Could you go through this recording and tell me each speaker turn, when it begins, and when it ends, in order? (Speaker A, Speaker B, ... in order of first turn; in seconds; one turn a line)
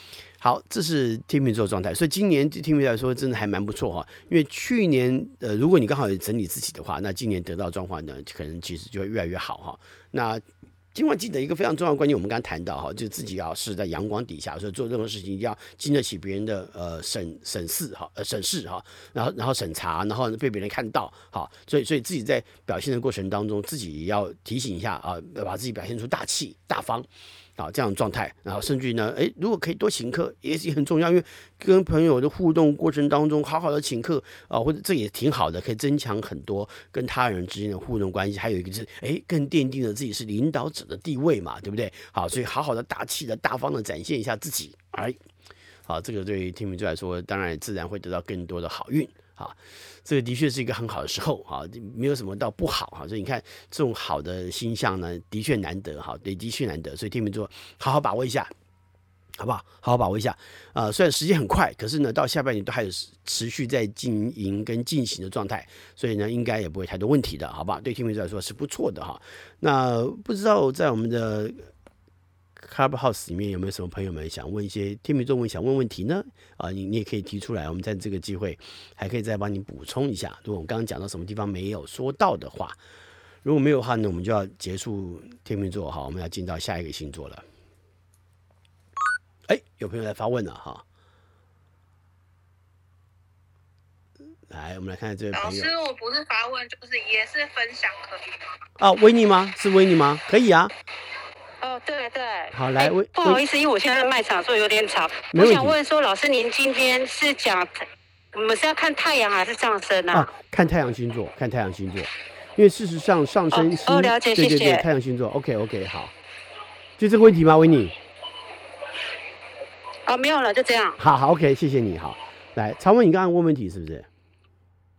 Speaker A: 0.4-10.4
Speaker A: 10.9-45.2
Speaker A: 45.9-58.5
Speaker A: 59.4-71.7
Speaker A: 72.6-82.8
Speaker A: 83.4-87.4
Speaker A: 89.5-90.8
Speaker A: 94.5-95.7
Speaker B: 95.3-98.3
Speaker A: 98.8-100.7
Speaker C: 101.6-107.7
Speaker A: 102.5-103.4
Speaker A: 105.3-105.8
Speaker C: 108.3-110.3
Speaker A: 110.1-116.1
Speaker C: 113.5-114.9
Speaker A: 117.0-117.9
Speaker C: 120.0-121.0
Speaker A: 121.0-124.1